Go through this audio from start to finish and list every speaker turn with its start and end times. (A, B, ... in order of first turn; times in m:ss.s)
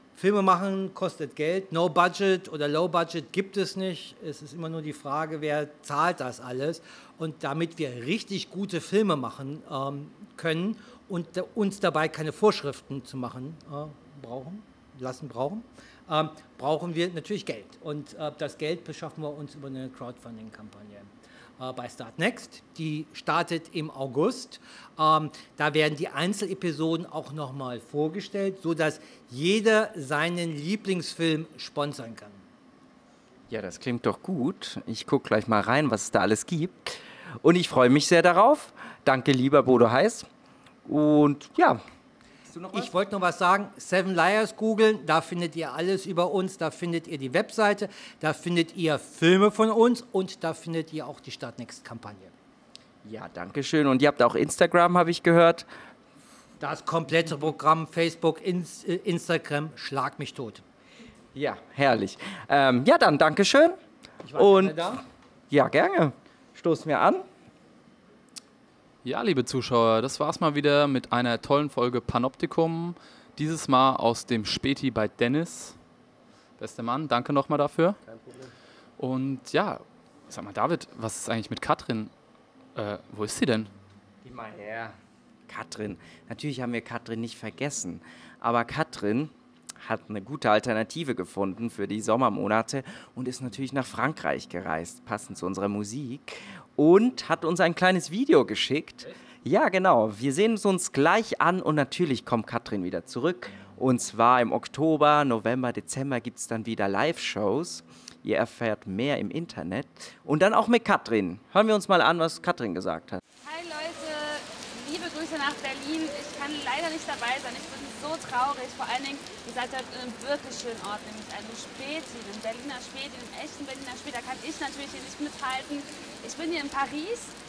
0:00.2-0:32.4 A
0:33.5-0:40.3 B
0:40.9-0:41.8 B
0:42.5-0:43.0 B
0:42.7-0:52.3 A
0:53.0-0:55.6 B
0:56.6-1:00.6 A
1:01.3-1:03.8 B
1:04.2-1:05.0 A
1:04.4-1:05.0 B
1:05.5-1:07.3 B
1:09.0-1:15.8 C
1:16.6-1:18.0 C
1:18.1-1:18.4 B
1:19.0-1:22.1 C
1:22.8-1:23.7 C
1:24.2-1:53.2 B
1:53.4-2:07.3 D